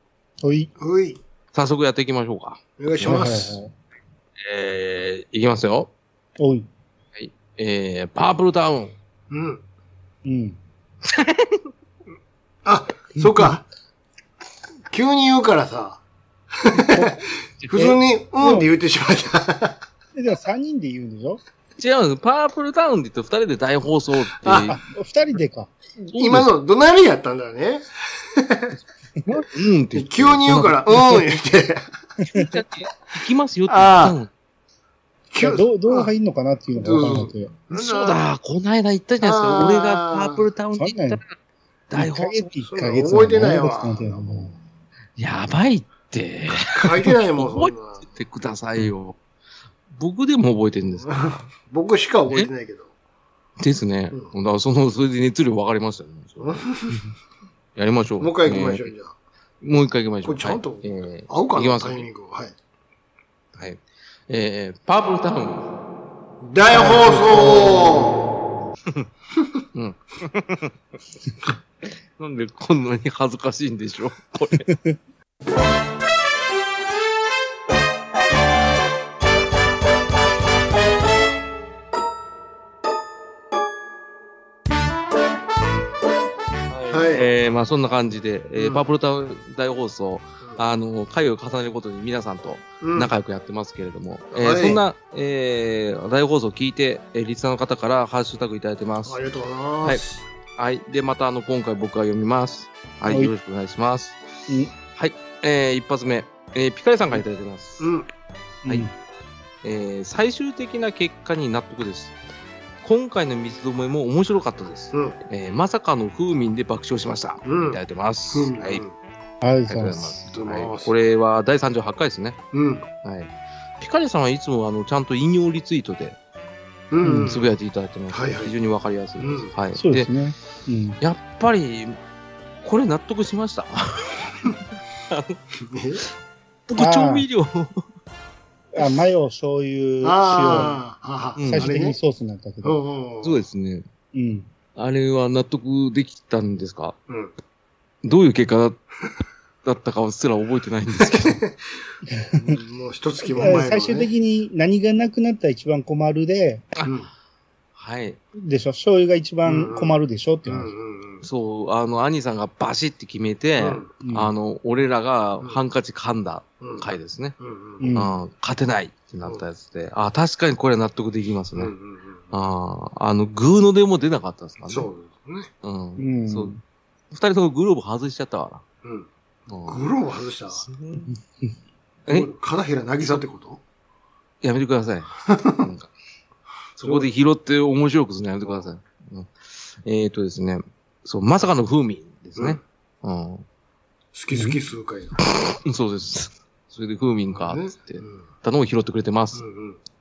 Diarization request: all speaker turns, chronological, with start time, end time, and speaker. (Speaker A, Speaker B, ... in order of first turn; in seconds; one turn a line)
Speaker A: 0.4-0.7
Speaker B: 0.8-1.2
Speaker C: 1.5-2.6
Speaker B: 2.8-3.6
Speaker A: 3.0-3.7
Speaker C: 4.4-5.9
Speaker A: 6.4-6.7
Speaker C: 7.2-8.9
Speaker B: 9.3-9.6
Speaker A: 10.2-10.6
Speaker C: 11.0-11.7
Speaker B: 12.6-13.6
Speaker B: 14.9-16.0
Speaker B: 16.6-19.8
Speaker A: 16.9-17.2
Speaker C: 17.6-17.9
Speaker A: 17.7-18.7
Speaker A: 20.1-21.4
Speaker C: 21.8-24.8
Speaker B: 24.4-24.7
Speaker A: 24.7-25.7
Speaker B: 26.0-28.7
Speaker C: 26.1-26.5
Speaker C: 29.2-31.3
Speaker B: 29.9-31.8
Speaker A: 32.3-32.6
Speaker C: 32.3-34.3
Speaker B: 33.7-34.2
Speaker B: 35.3-36.1
Speaker A: 35.4-37.5
Speaker B: 36.8-38.2
Speaker C: 37.7-41.3
Speaker B: 39.2-40.5
Speaker A: 40.8-41.2
Speaker C: 41.9-42.4
Speaker A: 41.9-44.5
Speaker B: 42.6-44.5
Speaker C: 45.2-49.2
Speaker B: 46.6-48.0
Speaker C: 49.9-51.4
Speaker B: 51.0-52.9
Speaker C: 53.6-56.6
Speaker B: 56.4-57.0
Speaker C: 57.7-58.9
Speaker B: 58.2-59.1
Speaker C: 59.6-62.1
Speaker B: 60.2-62.5
Speaker C: 63.5-65.7
Speaker B: 66.4-68.2
Speaker A: 66.8-67.7
Speaker C: 69.7-70.7
Speaker C: 72.2-74.7
Speaker A: 74.7-75.0
Speaker C: 86.7-99.2
Speaker B: 86.9-87.3
Speaker B: 88.6-88.8
Speaker B: 92.8-93.1
Speaker B: 94.3-94.8
Speaker B: 99.0-100.2
Speaker C: 100.6-104.2
Speaker A: 103.1-103.3
Speaker C: 104.9-107.9
Speaker B: 107.8-108.1
Speaker A: 108.6-108.9
Speaker C: 109.6-112.2
Speaker C: 112.8-118.8
Speaker B: 117.4-117.8
Speaker B: 118.3-118.9
Speaker A: 119.4-120.2
Speaker C: 119.7-122.4
Speaker B: 120.3-120.9
Speaker B: 122.5-122.8
Speaker C: 123.0-126.2
Speaker B: 126.9-127.5
Speaker A: 127.0-127.3
Speaker C: 127.2-130.1
Speaker B: 128.1-128.5
Speaker B: 129.2-129.5
Speaker A: 129.8-131.0
Speaker C: 131.0-132.0
Speaker C: 132.6-134.6
Speaker C: 135.1-135.4
Speaker B: 135.6-136.0
Speaker C: 136.7-137.8
Speaker A: 136.8-137.3
Speaker A: 138.7-140.8
Speaker B: 140.0-142.0
Speaker C: 141.4-141.7
Speaker A: 141.4-142.8
Speaker B: 142.6-143.4
Speaker C: 143.2-143.8
Speaker A: 144.1-144.5
Speaker C: 144.7-146.9
Speaker C: 148.0-148.8
Speaker C: 149.6-151.4
Speaker B: 151.0-151.5
Speaker B: 152.3-154.1
Speaker A: 153.4-156.7
Speaker C: 157.8-158.2
Speaker A: 158.3-160.7
Speaker B: 159.4-161.2
Speaker C: 161.2-167.3
Speaker B: 163.6-163.9
Speaker A: 164.0-164.3
Speaker B: 166.6-166.9
Speaker B: 167.4-167.9
Speaker A: 167.8-168.1
Speaker C: 167.9-171.7
Speaker B: 171.5-172.3
Speaker C: 172.3-174.9
Speaker B: 174.6-175.5
Speaker C: 175.6-176.5
Speaker A: 176.0-176.6
Speaker C: 177.1-178.6
Speaker B: 178.8-179.1
Speaker C: 179.5-179.8
Speaker B: 179.7-180.7
Speaker C: 180.5-181.1
Speaker B: 182.1-183.6
Speaker C: 184.4-185.9
Speaker B: 185.3-185.6
Speaker C: 186.8-193.4
Speaker B: 186.8-187.1
Speaker B: 194.1-195.1
Speaker A: 194.3-194.6
Speaker C: 195.3-199.4
Speaker B: 197.3-198.2
Speaker B: 199.3-199.8